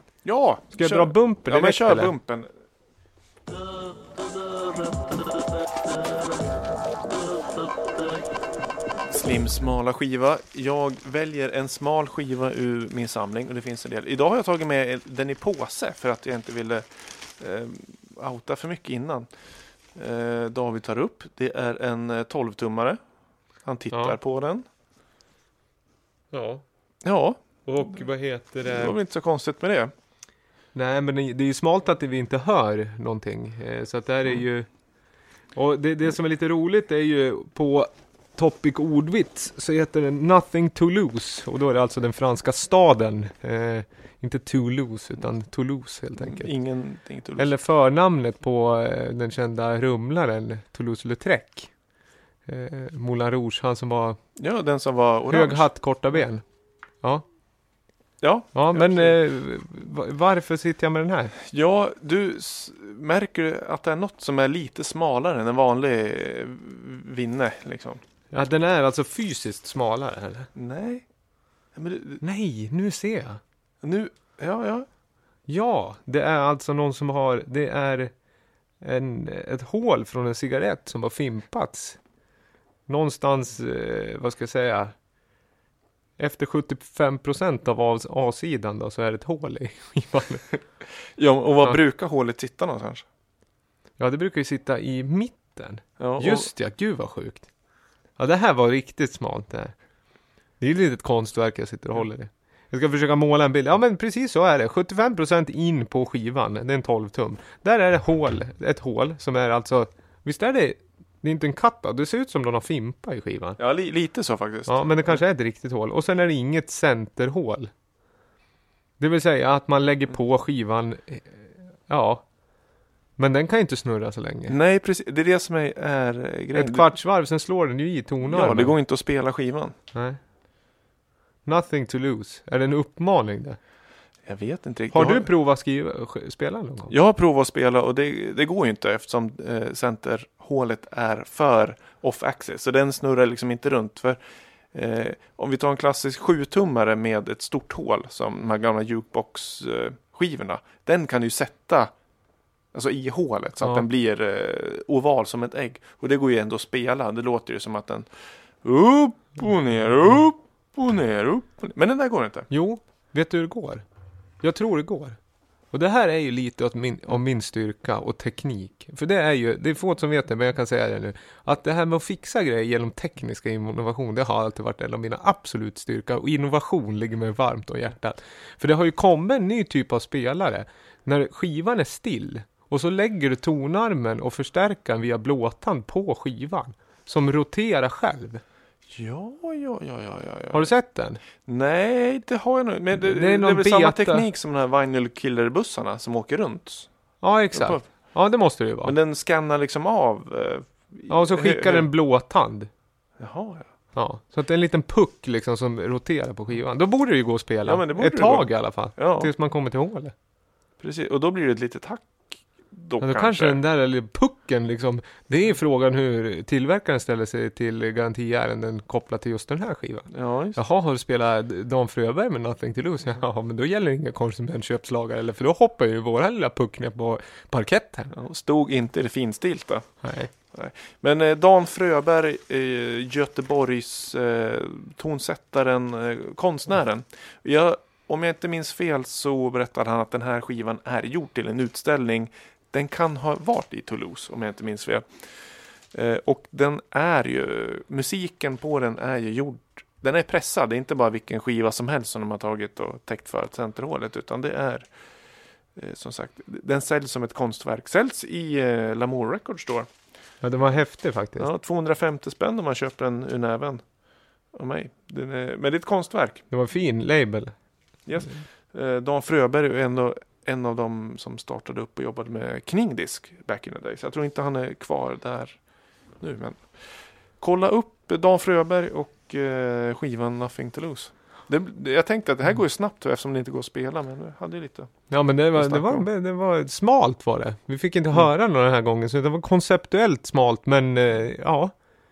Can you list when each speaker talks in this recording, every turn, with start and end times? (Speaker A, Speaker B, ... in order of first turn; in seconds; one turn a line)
Speaker A: 0.2-2.5
Speaker B: 0.7-2.1
Speaker A: 9.1-16.9
Speaker A: 17.4-19.3
Speaker A: 19.9-23.0
Speaker A: 23.6-24.6
Speaker B: 26.3-26.6
Speaker A: 27.0-27.4
Speaker B: 27.6-28.9
Speaker A: 28.6-29.9
Speaker B: 30.7-34.7
Speaker B: 35.5-46.5
Speaker A: 46.2-47.5
Speaker B: 47.4-51.7
Speaker B: 52.5-54.2
Speaker A: 54.4-56.2
Speaker B: 55.3-56.4
Speaker A: 58.2-59.2
Speaker B: 58.5-61.3
Speaker A: 61.4-68.0
Speaker B: 68.3-70.5
Speaker A: 70.5-71.0
Speaker A: 71.7-72.2
Speaker B: 72.2-73.4
Speaker A: 73.8-74.9
Speaker B: 75.5-78.1
Speaker B: 78.8-82.0
Speaker B: 82.9-84.9
Speaker B: 86.2-90.5
Speaker A: 91.2-93.0
Speaker B: 94.0-97.5
Speaker A: 96.0-96.5
Speaker B: 98.2-99.7
Speaker B: 100.6-113.6
Speaker A: 113.6-115.2
Speaker B: 114.7-117.7
Speaker B: 119.0-122.2
Speaker B: 123.2-124.5
Speaker A: 124.5-126.9
Speaker B: 126.5-128.8
Speaker A: 128.2-129.7
Speaker B: 129.9-130.2
Speaker B: 131.4-133.6
Speaker A: 134.2-135.3
Speaker B: 134.9-136.9
Speaker A: 136.9-144.2
Speaker A: 144.7-151.9
Speaker A: 152.7-158.1
Speaker A: 158.6-162.5
Speaker B: 162.5-163.8
Speaker B: 164.4-165.2
Speaker B: 165.7-188.4
Speaker A: 188.9-190.7
Speaker B: 190.5-191.2
Speaker A: 191.4-196.9
Speaker B: 192.9-194.3
Speaker B: 197.2-198.9
Speaker A: 197.5-197.8
Speaker A: 198.8-201.9
Speaker B: 201.1-202.7
Speaker A: 203.2-203.7
Speaker B: 203.9-210.1
Speaker A: 207.7-209.3
Speaker A: 210.8-213.6
Speaker B: 213.0-228.1
Speaker A: 220.1-220.6
Speaker A: 228.1-229.9
Speaker B: 230.0-230.3
Speaker A: 230.5-245.0
Speaker A: 245.9-254.9
Speaker A: 255.8-259.9
Speaker B: 260.4-261.5
Speaker A: 261.4-263.8
Speaker A: 264.5-266.4
Speaker B: 266.5-267.5
Speaker A: 268.1-275.6
Speaker A: 276.2-276.6
Speaker A: 277.4-284.9
Speaker B: 285.1-291.7
Speaker A: 285.5-286.1